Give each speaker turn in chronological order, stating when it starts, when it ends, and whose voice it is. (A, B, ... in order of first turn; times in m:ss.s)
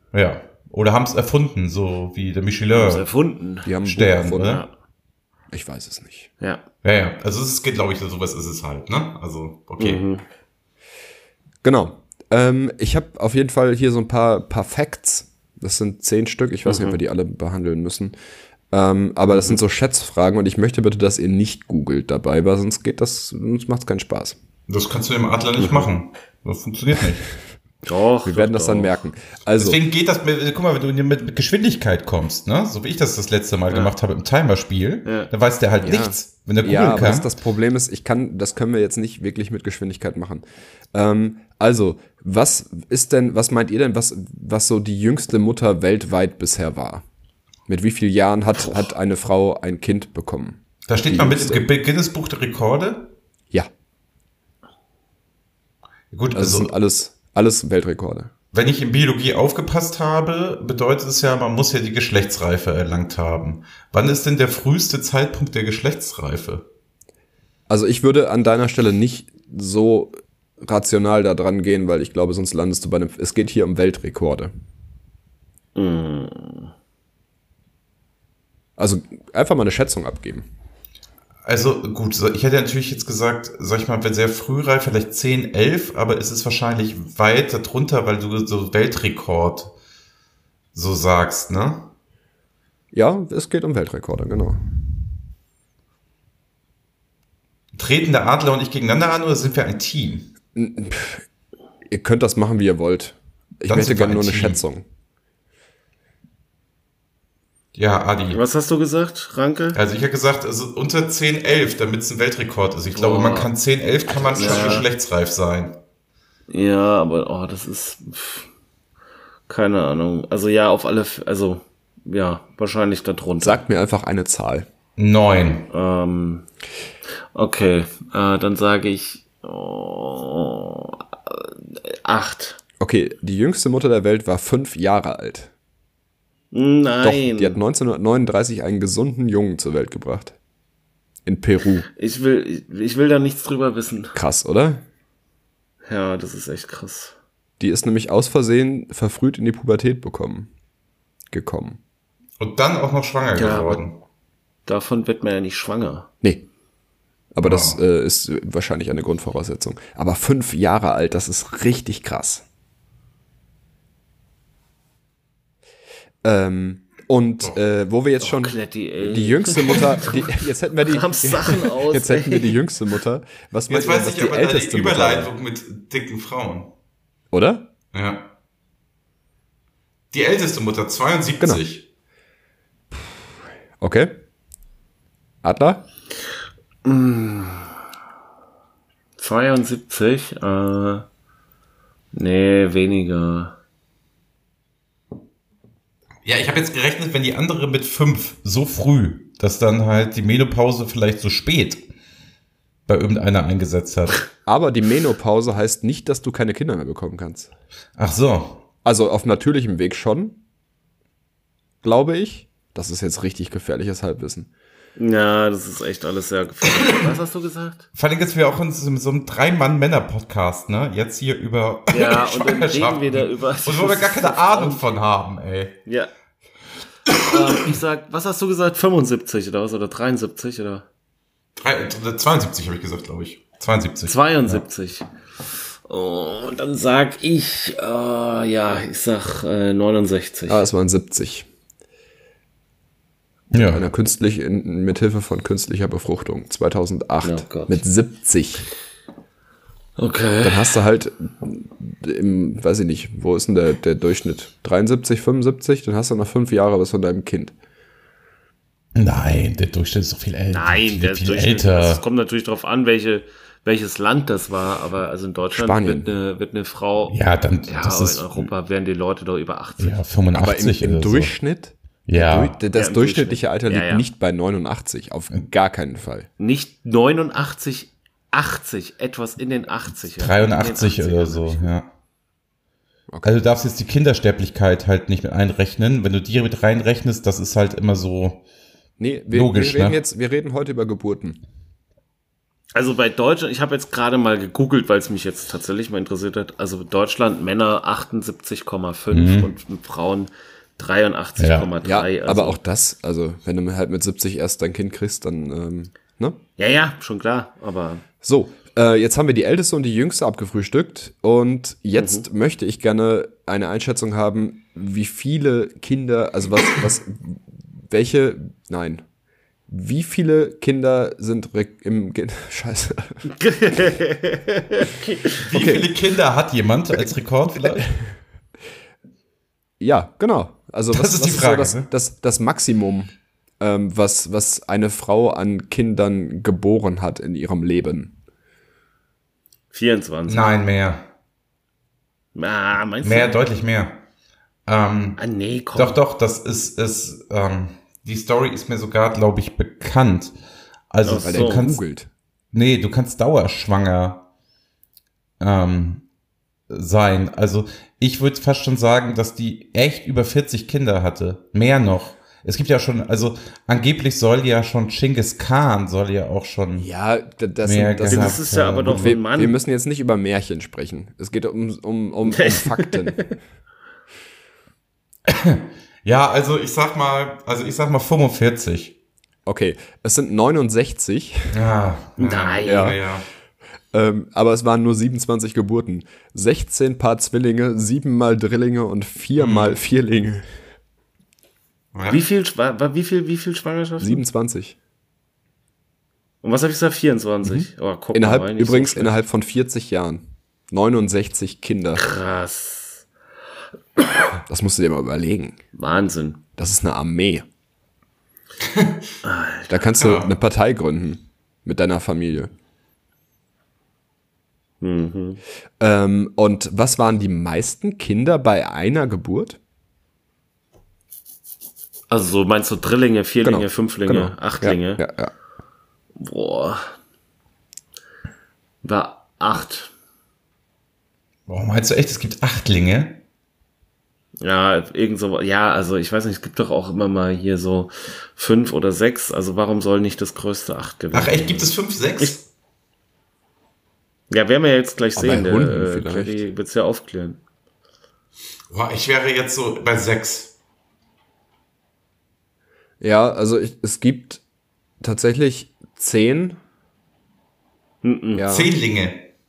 0:00.1-0:03.1 A
0:02.7-0:03.7 B
0:03.6-0:04.6 C
0:03.8-0:04.6 A
0:04.4-0:04.7 B
0:05.5-0:06.3 C
0:06.8-0:10.0 A
0:09.8-0:10.2 B
0:11.6-0:18.1 C
0:16.6-0:17.0 B
0:18.7-0:24.4 C
0:24.7-0:27.3 A
0:25.6-0:25.9 B
0:27.8-0:29.0 B
0:28.2-0:29.8 C
0:29.6-0:37.3 A
0:35.0-0:35.3 B
0:35.8-0:47.0 C
0:47.7-0:51.6 C
0:50.9-0:53.1 A
0:56.1-0:56.7 A
0:56.3-0:58.3 C
0:58.5-1:06.6 A
1:07.7-1:14.5 C
1:15.8-1:16.7 B
1:18.8-1:20.5 C
1:21.4-1:29.7 A
1:30.7-1:31.9 A
1:32.9-1:34.6 C
1:37.7-1:40.3 A
1:40.6-1:41.2 C
1:41.9-1:44.8 C
1:43.6-1:44.6 A
1:47.8-1:48.4 A
1:48.3-1:49.8 B
1:49.7-1:55.8 A
1:52.9-1:53.5 B
1:54.1-1:54.9 B
1:56.5-1:58.5 B
1:59.5-2:03.6 B
2:03.4-2:04.7 C
2:05.0-2:05.7 A
2:05.7-2:06.5 B
2:07.3-2:12.6 B
2:12.8-2:15.5 C
2:16.5-2:17.6 B
2:17.0-2:20.4 C
2:21.2-2:21.9 C
2:22.0-2:24.2 B
2:24.2-2:24.8 C
2:25.9-2:27.2 B
2:27.6-2:30.5 C
2:31.3-2:31.8 C
2:32.4-2:34.0 A
2:33.3-2:33.8 B
2:34.7-2:36.1 B
2:37.3-2:42.4 C
2:37.4-2:37.8 A
2:46.2-2:55.3 C
2:48.2-2:50.3 B
2:50.9-2:52.6 B
2:53.7-2:56.7 A
2:57.3-2:57.7 C
2:57.9-2:58.3 A
3:00.1-3:01.9 A
3:03.8-3:04.2 C
3:05.4-3:05.8 C
3:06.8-3:07.7 B
3:09.2-3:11.1 B
3:12.1-3:13.6 B
3:16.3-3:21.8 A
3:22.9-3:24.3 A
3:24.5-3:27.5 C
3:28.0-3:28.6 A
3:28.8-3:30.4 C
3:31.8-3:34.5 C
3:35.0-3:37.9 B
3:38.0-3:45.8 A
3:41.9-3:44.9 B
3:47.2-3:50.9 B
3:51.6-3:54.6 A
3:54.1-3:55.0 B
3:55.9-4:00.7 B
4:00.5-4:01.5 C
4:03.5-4:03.9 A
4:03.5-4:08.7 C
4:07.2-4:07.8 B
4:10.0-4:10.7 B
4:10.4-4:17.5 C
4:19.0-4:22.0 A
4:20.5-4:27.2 B
4:25.5-4:26.1 C
4:27.1-4:28.5 A
4:27.7-4:30.0 B
4:29.8-4:31.3 A
4:30.3-4:36.3 C
4:32.1-4:32.6 A
4:32.7-4:34.1 B
4:36.4-4:41.7 B
4:40.2-4:41.9 A
4:43.1-4:43.4 C
4:43.2-4:48.4 A
4:49.0-4:51.4 C
4:49.3-4:50.0 A
4:52.8-5:02.6 B
4:59.1-4:59.5 A
5:01.4-5:01.7 A
5:01.8-5:06.4 C
5:06.6-5:08.0 B
5:08.2-5:19.0 C
5:12.0-5:12.3 B
5:19.7-5:23.3 C
5:23.3-5:25.4 B
5:25.4-5:27.9 A
5:25.5-5:25.9 C
5:29.8-5:38.2 C
5:30.9-5:31.9 A
5:39.7-5:40.5 B
5:40.3-5:41.0 A
5:42.4-5:43.4 B
5:43.0-5:44.0 A
5:44.7-5:45.2 A
5:45.2-5:46.0 B
5:45.7-5:50.3 A
5:50.9-5:51.8 A
5:51.0-5:51.6 B
5:51.1-5:52.1 C
5:52.5-5:54.2 A
5:55.4-5:56.0 A
5:56.7-6:06.9 A
6:06.8-6:13.4 C
6:07.6-6:09.2 A
6:08.1-6:09.6 B
6:12.3-6:13.3 B
6:15.3-6:19.0 A
6:19.5-6:21.6 C
6:21.5-6:23.2 A
6:22.2-6:23.0 B
6:22.6-6:23.0 C
6:23.9-6:30.5 C
6:29.4-6:29.8 A
6:31.9-6:32.2 A
6:32.0-6:34.2 B
6:34.0-6:34.8 C
6:36.4-6:39.1 B
6:37.4-6:42.0 C
6:42.0-6:43.1 B
6:44.5-6:45.6 C
6:45.8-6:46.4 B
6:46.6-6:47.5 C
6:48.6-6:49.0 A
6:49.2-6:49.7 B
6:49.7-6:52.5 C
6:50.0-6:50.3 A
6:54.8-6:55.4 B
6:55.8-6:59.6 C
7:02.1-7:05.1 B
7:03.4-7:05.3 C
7:06.2-7:07.0 B
7:08.8-7:09.9 B
7:11.5-7:13.2 A
7:14.4-7:22.4 B
7:21.1-7:22.4 A
7:24.3-7:27.4 B
7:25.2-7:26.4 C
7:28.7-7:30.5 A
7:33.0-7:34.4 C
7:35.0-7:36.6 C
7:38.0-7:38.6 B
7:38.4-7:38.7 C
7:38.5-7:39.3 A